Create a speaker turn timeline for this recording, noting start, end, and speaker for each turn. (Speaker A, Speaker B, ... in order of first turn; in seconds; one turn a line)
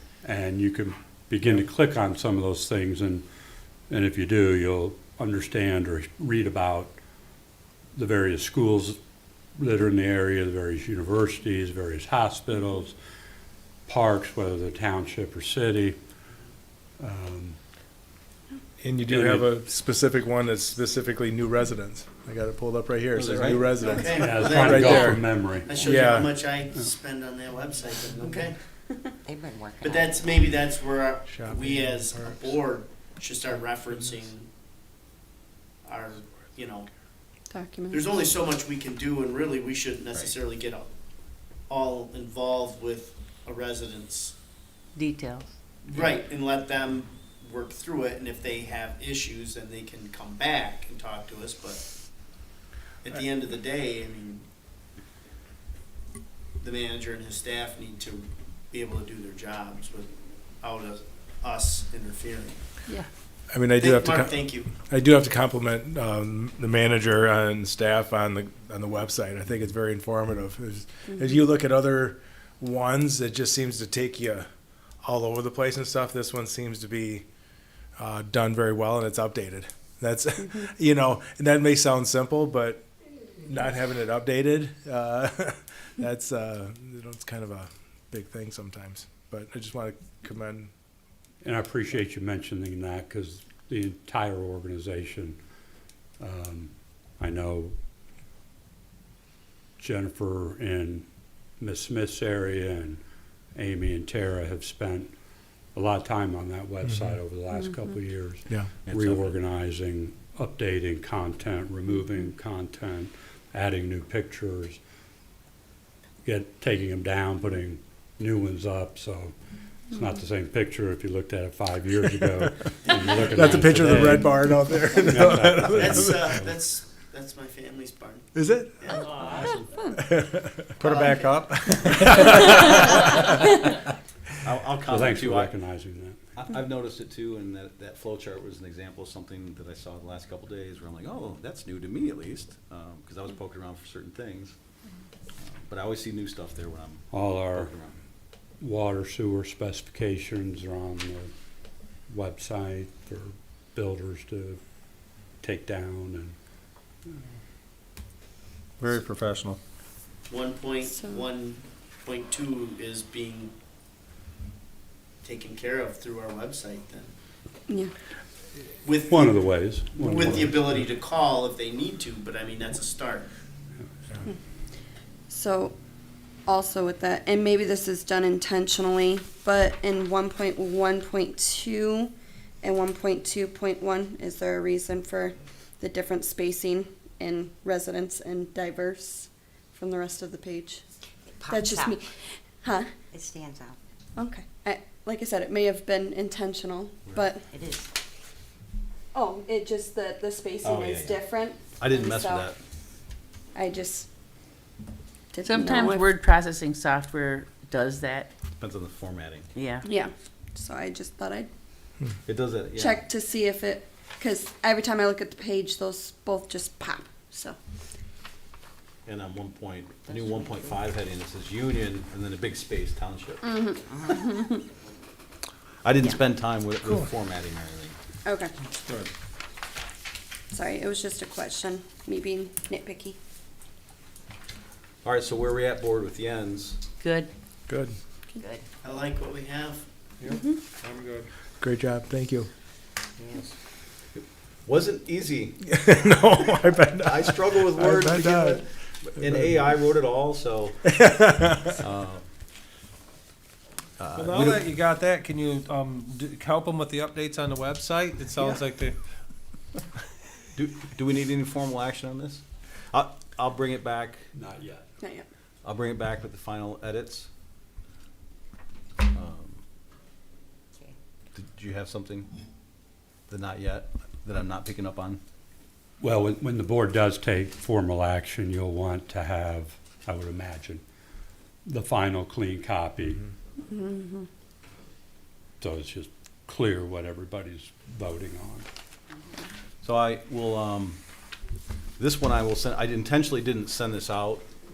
Speaker A: 0.2-3.2
Speaker A: 3.9-7.0
Speaker A: 7.9-9.0
Speaker A: 9.6-13.0
Speaker A: 13.9-16.0
Speaker A: 17.0-17.6
Speaker B: 18.8-26.4
Speaker A: 19.1-19.5
Speaker C: 23.1-24.2
Speaker D: 23.8-28.8
Speaker A: 24.1-25.7
Speaker E: 29.2-30.3
Speaker D: 29.8-34.5
Speaker B: 31.3-32.5
Speaker D: 35.8-36.9
Speaker F: 37.5-38.1
Speaker D: 37.9-44.4
Speaker G: 45.0-45.5
Speaker D: 45.8-54.5
Speaker D: 56.6-62.6
Speaker B: 63.5-77.3
Speaker D: 63.8-64.7
Speaker B: 78.0-90.7
Speaker A: 91.4-95.4
Speaker A: 96.2-97.8
Speaker A: 99.8-103.0
Speaker A: 103.5-105.2
Speaker A: 105.7-114.8
Speaker B: 106.8-107.2
Speaker C: 108.8-109.4
Speaker A: 116.2-119.3
Speaker A: 119.9-126.5
Speaker B: 123.3-126.2
Speaker D: 125.7-129.4
Speaker B: 128.3-129.2
Speaker B: 129.8-130.6
Speaker D: 130.8-132.2
Speaker B: 131.5-133.2
Speaker C: 134.4-135.6
Speaker A: 134.9-136.2
Speaker C: 136.4-144.6
Speaker C: 145.4-148.0
Speaker A: 147.1-147.7
Speaker A: 148.6-151.3
Speaker A: 151.9-156.4
Speaker H: 158.8-159.6
Speaker D: 160.3-163.5
Speaker F: 160.8-161.3
Speaker D: 165.2-167.1
Speaker D: 168.8-173.3
Speaker A: 169.1-170.6
Speaker F: 175.3-175.8
Speaker F: 176.5-190.8
Speaker E: 191.4-192.0
Speaker F: 191.5-192.9
Speaker E: 193.1-193.8
Speaker F: 194.2-197.5
Speaker E: 197.5-197.9
Speaker F: 199.1-202.5
Speaker C: 200.6-202.6
Speaker F: 203.5-204.1
Speaker F: 205.3-206.0
Speaker G: 205.4-208.3
Speaker C: 208.6-209.5
Speaker G: 209.6-209.9
Speaker F: 209.8-211.5
Speaker C: 212.3-213.0
Speaker F: 212.7-217.6
Speaker C: 219.1-223.6
Speaker E: 220.1-220.7
Speaker F: 223.4-224.6
Speaker C: 225.8-228.0
Speaker H: 226.8-227.1
Speaker F: 228.2-228.5
Speaker H: 228.8-229.1
Speaker F: 230.5-233.2
Speaker C: 235.0-236.8
Speaker G: 237.0-237.3
Speaker B: 237.7-238.0
Speaker D: 238.8-239.8
Speaker H: 240.2-241.3
Speaker F: 240.3-240.6
Speaker B: 241.6-242.5
Speaker H: 243.2-243.6
Speaker C: 244.2-245.7
Speaker B: 245.6-248.7
Speaker C: 247.0-250.9
Speaker B: 249.2-249.6
Speaker B: 250.8-251.8
Speaker C: 251.8-252.3
Speaker C: 254.0-254.6
Speaker H: 254.1-259.0
Speaker C: 258.4-258.7
Speaker C: 260.6-264.2
Speaker A: 264.3-264.8
Speaker F: 265.0-265.3
Speaker C: 265.6-267.3
Speaker C: 269.1-269.6
Speaker C: 271.3-272.3
Speaker C: 273.3-275.2
Speaker A: 276.0-280.8
Speaker A: 281.6-283.2
Speaker F: 283.7-284.3
Speaker A: 285.6-288.7
Speaker C: 289.8-291.0
Speaker C: 292.0-294.4